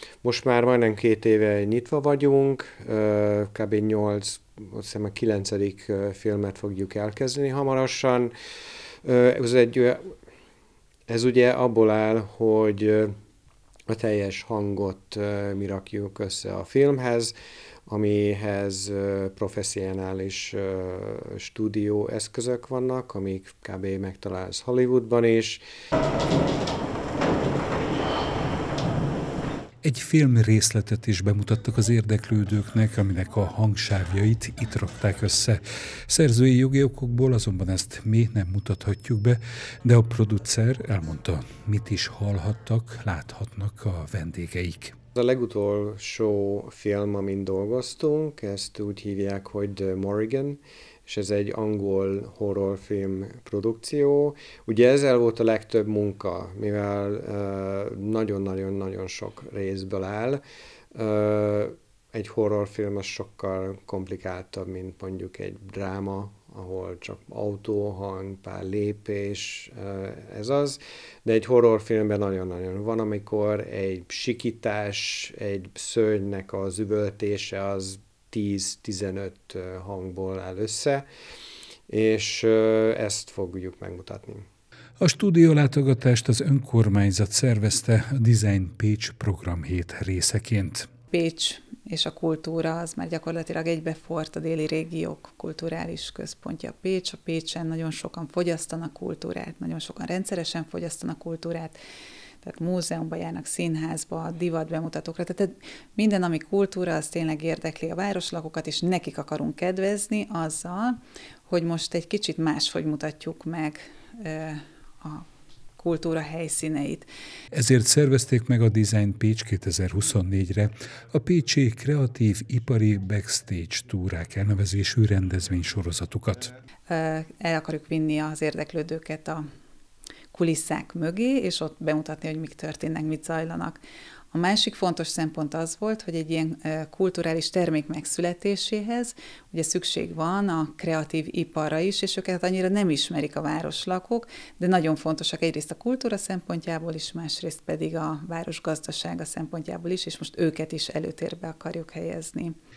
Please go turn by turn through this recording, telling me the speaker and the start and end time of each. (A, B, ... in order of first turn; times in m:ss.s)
0:00.2-0:08.3 A
0:09.0-0:10.0 A
0:11.1-0:13.1 A
0:13.9-0:17.3 A
0:17.9-0:25.6 A
0:29.8-0:45.0 B
0:45.1-1:00.4 A
1:00.9-1:21.0 A
1:21.9-1:24.5 A
1:25.0-1:30.9 B
1:31.1-1:41.8 C
1:42.4-1:51.0 C
1:51.5-1:55.2 C
1:55.8-1:57.1 C
1:57.5-2:06.5 B
2:06.9-2:09.4 C
2:10.3-2:32.6 C